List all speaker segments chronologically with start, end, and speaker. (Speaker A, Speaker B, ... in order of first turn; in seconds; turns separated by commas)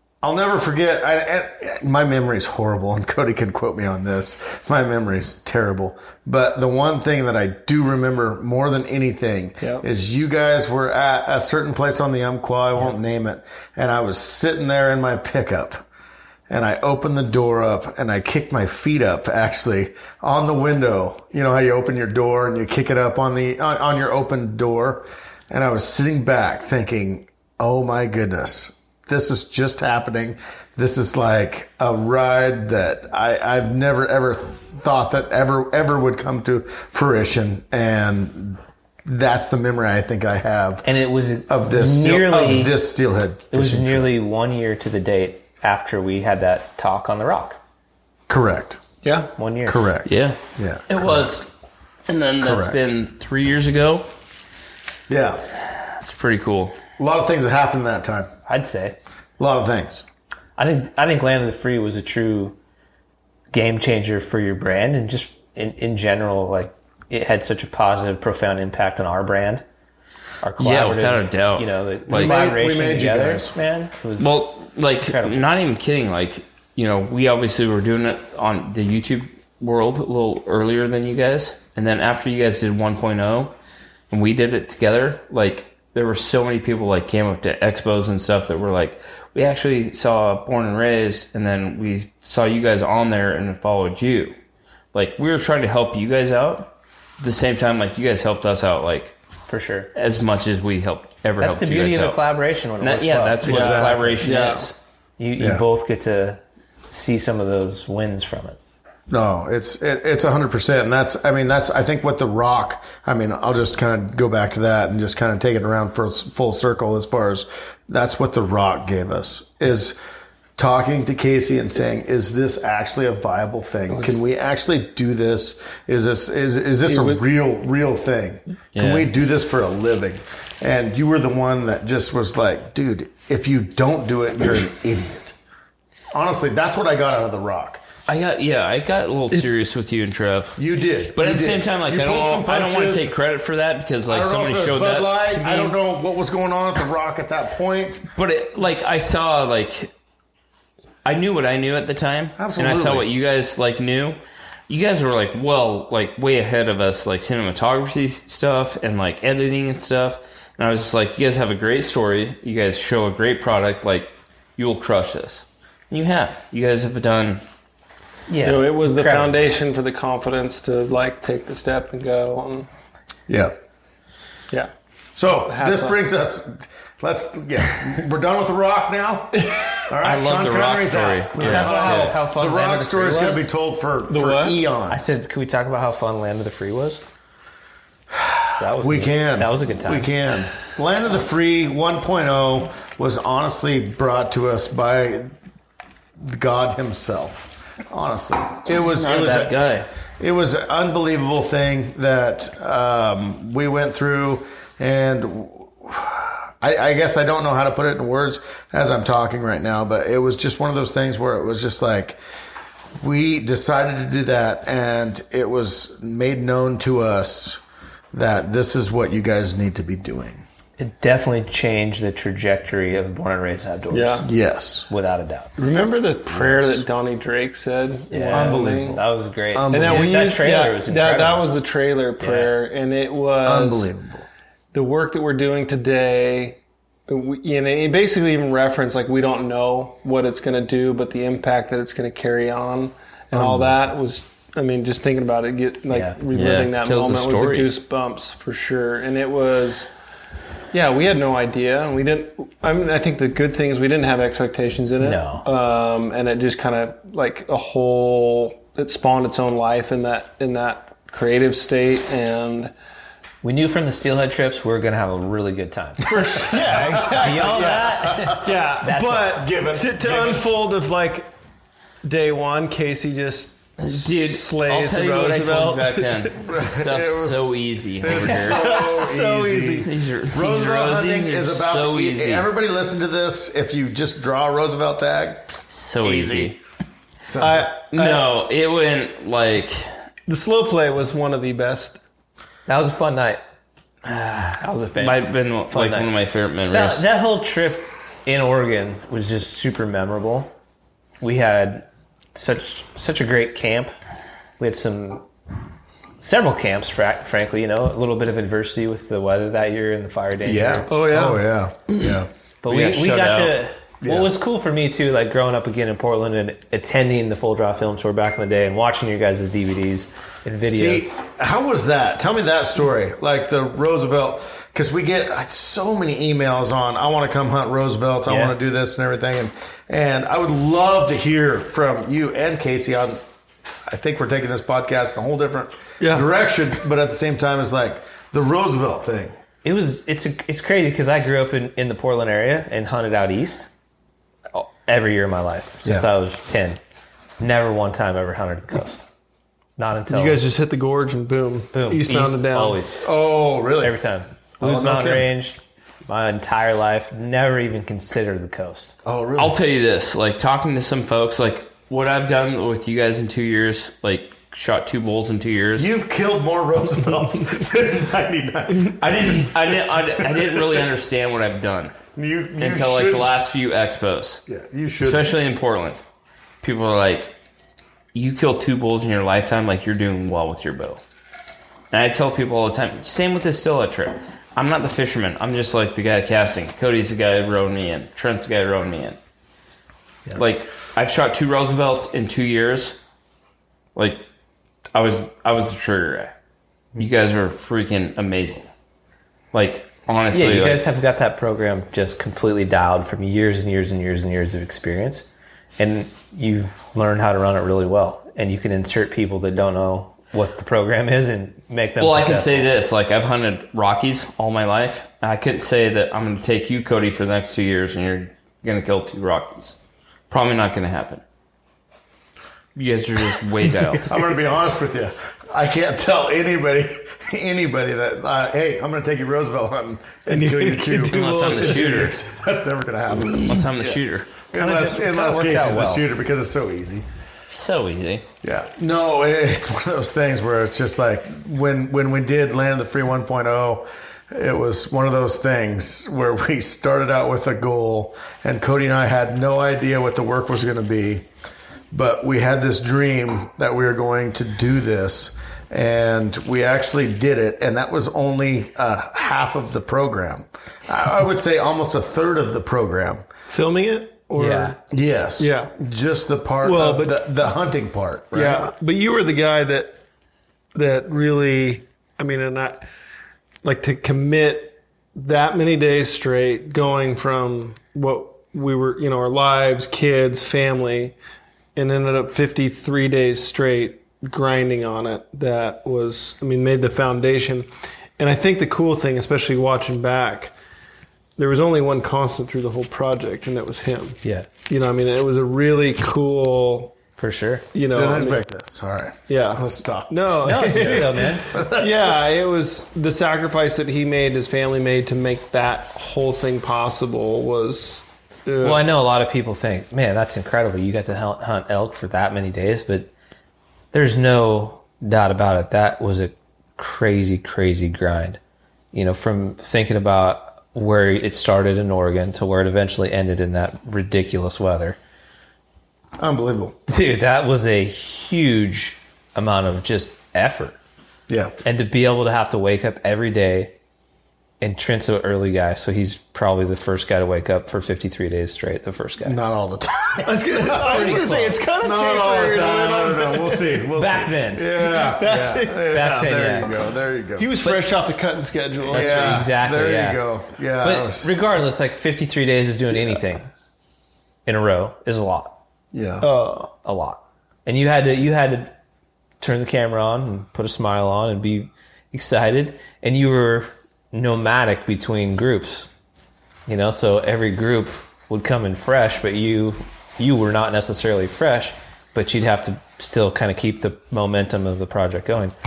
Speaker A: 0.2-15.8, Speaker A: 16.5-40.9, Speaker B: 40.8-42.7, Speaker A: 41.5-44.1, Speaker B: 43.5-47.6, Speaker A: 48.3-48.8, Speaker C: 49.0-49.3, Speaker B: 49.4-49.9, Speaker A: 49.6-51.2, Speaker D: 50.0-51.5, Speaker D: 52.1-54.1, Speaker A: 52.4-52.8, Speaker A: 55.1-55.4, Speaker D: 55.7-56.8, Speaker A: 57.0-58.3, Speaker B: 58.5-59.0, Speaker A: 59.4-60.0, Speaker B: 60.6-62.5, Speaker B: 63.5-69.6, Speaker B: 70.4-74.4, Speaker D: 70.6-72.3, Speaker A: 72.1-73.5, Speaker D: 74.2-83.5, Speaker B: 75.0-75.4, Speaker D: 84.1-94.3, Speaker D: 94.9-99.2, Speaker B: 99.5-99.9, Speaker D: 99.9-102.2, Speaker B: 101.4-104.2, Speaker D: 102.8-104.8, Speaker A: 103.4-104.1, Speaker C: 103.5-104.7, Speaker B: 105.2-108.6, Speaker A: 105.4-105.6, Speaker A: 109.1-120.0, Speaker A: 120.6-135.3, Speaker C: 123.9-124.2, Speaker C: 126.8-127.2, Speaker D: 128.7-129.1, Speaker A: 136.1-137.8, Speaker D: 138.1-140.6, Speaker A: 140.6-143.1, Speaker D: 141.2-145.8, Speaker A: 144.1-148.1, Speaker D: 148.2-149.9, Speaker D: 151.0-167.4, Speaker A: 152.4-153.0, Speaker B: 168.3-169.4, Speaker C: 168.4-172.7, Speaker A: 173.3-173.5, Speaker A: 175.2-185.1, Speaker C: 175.4-176.0, Speaker C: 179.3-179.8, Speaker D: 180.0-182.1, Speaker B: 181.4-183.5, Speaker C: 184.1-184.6, Speaker B: 184.9-187.0, Speaker A: 188.1-195.3, Speaker B: 188.6-190.1, Speaker A: 196.2-199.6, Speaker D: 198.7-199.9, Speaker A: 200.2-212.2, Speaker A: 213.0-217.6, Speaker A: 218.1-220.4, Speaker B: 220.8-224.3, Speaker C: 223.9-224.2, Speaker A: 224.2-224.9, Speaker B: 224.9-225.5, Speaker C: 225.6-229.0, Speaker A: 226.3-226.8, Speaker B: 228.1-231.5, Speaker A: 228.3-229.0, Speaker A: 229.5-230.2, Speaker C: 229.7-233.9, Speaker B: 232.2-232.6, Speaker A: 233.4-234.2, Speaker C: 234.7-249.9, Speaker A: 243.3-243.7, Speaker B: 245.9-246.2, Speaker D: 246.3-247.7, Speaker C: 250.7-262.7, Speaker B: 255.0-255.4, Speaker B: 263.4-269.4, Speaker C: 266.1-271.3, Speaker A: 266.1-268.6, Speaker A: 269.2-270.5, Speaker C: 272.0-276.3, Speaker D: 273.8-278.8, Speaker A: 276.4-286.6, Speaker C: 278.1-279.9, Speaker D: 279.8-282.5, Speaker D: 285.7-286.6, Speaker A: 287.3-287.7, Speaker C: 287.4-288.2, Speaker D: 287.9-289.9, Speaker C: 290.3-292.0, Speaker B: 292.6-293.4, Speaker D: 294.0-297.1, Speaker B: 294.6-296.1, Speaker B: 296.7-300.5, Speaker B: 301.2-303.9, Speaker B: 304.6-305.2, Speaker B: 306.2-310.9, Speaker A: 310.4-312.3, Speaker C: 310.9-311.4, Speaker B: 312.6-321.1, Speaker D: 312.7-313.5, Speaker A: 314.0-314.3, Speaker A: 320.6-333.2, Speaker B: 328.2-328.5, Speaker A: 333.9-339.3, Speaker C: 336.0-336.2, Speaker B: 339.6-343.7, Speaker B: 344.5-346.8, Speaker B: 347.4-349.1, Speaker B: 349.8-350.4, Speaker C: 350.1-352.8, Speaker B: 351.7-353.0, Speaker A: 353.0-354.0, Speaker B: 353.8-358.9, Speaker A: 354.6-355.3, Speaker A: 359.0-359.6, Speaker D: 359.4-365.9, Speaker A: 365.8-369.6, Speaker D: 368.9-372.0, Speaker A: 370.2-370.6, Speaker A: 372.1-373.3, Speaker D: 372.6-374.4, Speaker A: 374.5-375.3, Speaker D: 375.0-376.0, Speaker D: 376.6-377.3, Speaker D: 378.1-381.0, Speaker D: 381.9-389.2, Speaker D: 390.3-393.0, Speaker D: 393.9-394.2, Speaker D: 394.9-396.3, Speaker D: 397.0-398.7, Speaker D: 399.5-400.9, Speaker B: 400.3-412.7, Speaker D: 412.0-419.8, Speaker D: 420.3-421.2, Speaker D: 422.7-424.1, Speaker A: 424.1-434.0, Speaker C: 430.3-432.0, Speaker D: 431.0-432.2, Speaker D: 433.3-434.3, Speaker A: 434.5-437.1, Speaker B: 434.5-436.1, Speaker D: 437.5-438.2, Speaker A: 438.4-451.2, Speaker A: 451.9-463.2, Speaker C: 463.5-464.8, Speaker B: 464.3-464.8, Speaker A: 464.9-468.7, Speaker C: 465.4-465.7, Speaker C: 466.6-467.1, Speaker C: 468.3-470.0, Speaker C: 470.7-472.9, Speaker C: 473.6-481.1, Speaker C: 481.7-490.5, Speaker C: 491.4-496.9, Speaker B: 497.2-497.6, Speaker C: 497.7-498.4, Speaker A: 497.9-502.1, Speaker C: 499.3-508.8, Speaker B: 500.4-501.5, Speaker B: 508.6-513.1, Speaker B: 513.9-518.4, Speaker B: 518.9-525.0, Speaker A: 526.2-526.8, Speaker B: 526.9-530.8, Speaker A: 531.3-531.5, Speaker B: 531.6-533.7, Speaker B: 534.6-539.4, Speaker A: 539.2-547.5, Speaker C: 540.2-543.8, Speaker B: 543.9-544.6, Speaker C: 544.9-546.1, Speaker B: 545.9-546.7, Speaker C: 547.4-549.5, Speaker B: 548.9-550.2, Speaker A: 548.9-551.4, Speaker B: 550.8-553.5, Speaker B: 554.5-555.6, Speaker A: 555.9-556.3, Speaker C: 556.2-556.7, Speaker B: 556.8-558.7, Speaker B: 559.4-565.9, Speaker B: 566.7-575.5